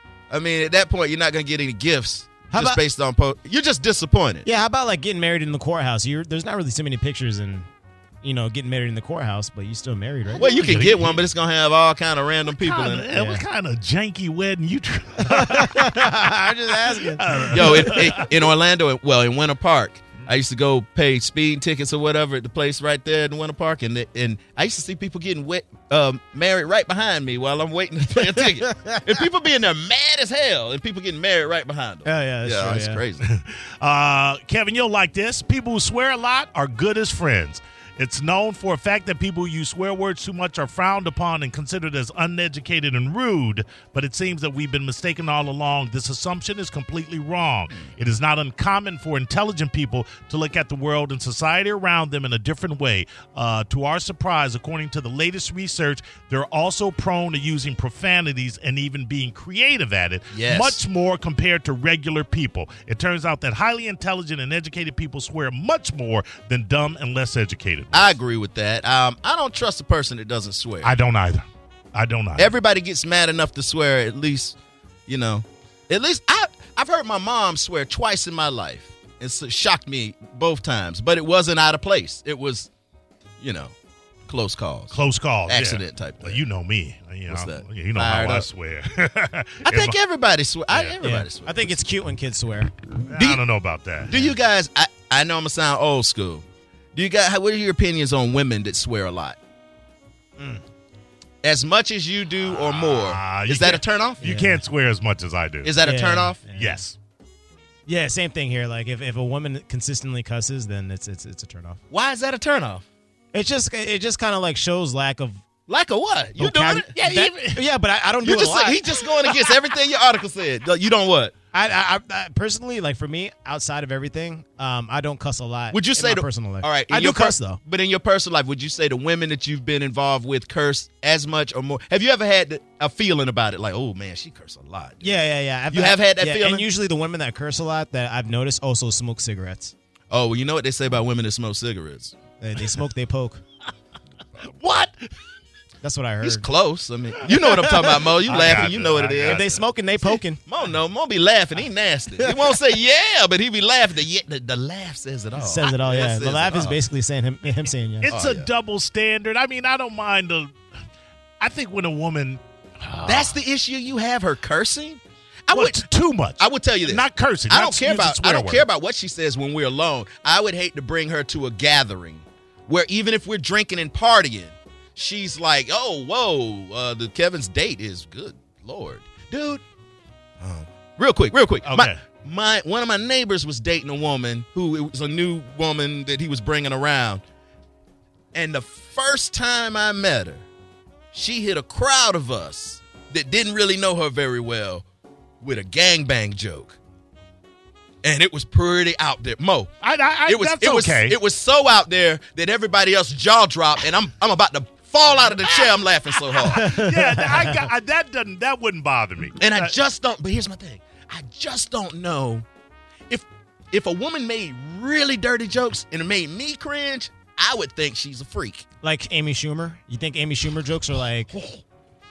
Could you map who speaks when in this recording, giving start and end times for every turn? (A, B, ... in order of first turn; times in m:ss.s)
0:00.3-0:04.5 A
0:02.5-0:02.8 B
0:04.4-0:07.7 B
0:08.2-0:10.6 B
0:10.4-0:13.1 A
0:10.4-0:11.2 C
0:12.6-0:16.0 C
0:13.1-0:13.4 B
0:15.2-0:18.2 B
0:17.0-0:18.4 C
0:17.5-0:33.2 A
0:28.1-0:29.2 B
0:32.0-0:33.0 B
0:33.2-1:08.1 C
1:00.3-1:00.8 A
1:07.9-1:10.9 A
1:10.8-1:12.5 C
1:12.4-1:22.7 A
1:23.4-1:23.7 A
1:24.3-1:24.9 A
1:24.9-1:30.0 C
1:25.5-1:26.4 A
1:27.3-1:28.5 A
1:29.6-1:31.8 A
1:31.0-1:32.7 B
1:33.0-1:33.4 A
1:33.0-1:34.1 C
1:34.0-1:36.4 A
1:36.9-1:39.4 A
1:40.4-1:40.6 B
1:41.4-1:44.2 A
1:42.4-1:45.7 C
1:44.2-1:44.6 B
1:45.6-1:46.4 A
1:45.8-1:46.8 B
1:46.5-1:47.0 C
1:47.8-1:51.8 B
1:51.9-1:52.8 A
1:53.3-1:55.4 B
1:55.7-1:56.9 A
1:56.4-1:59.5 B
1:56.9-1:57.6 C
1:58.2-2:01.3 A
2:01.5-2:07.6 B
2:05.7-2:15.2 A
2:15.0-2:19.7 B
2:15.7-2:16.7 A
2:20.1-2:22.2 A
2:22.4-2:23.4 B
2:24.4-2:25.1 C
2:25.8-2:26.4 B
2:26.2-2:29.4 A
2:27.3-2:30.4 B
2:28.0-2:29.6 C
2:30.4-2:36.8 A
2:32.2-2:32.6 B
2:35.4-2:38.1 B
2:38.0-2:40.5 C
2:38.1-2:38.5 A
2:41.4-2:43.3 C
2:43.0-2:45.8 A
2:45.5-2:48.6 C
2:46.4-2:59.6 A
3:00.4-3:07.2 A
3:01.6-3:02.0 C
3:08.3-3:10.4 A
3:11.1-3:14.8 A
3:15.4-3:16.8 A
3:18.0-3:19.7 A
3:19.8-3:21.2 C
3:20.3-3:26.8 A
3:26.3-3:29.7 C
3:26.5-3:27.7 B
3:29.4-3:32.4 A
3:33.1-3:38.6 A
3:38.8-3:41.3 B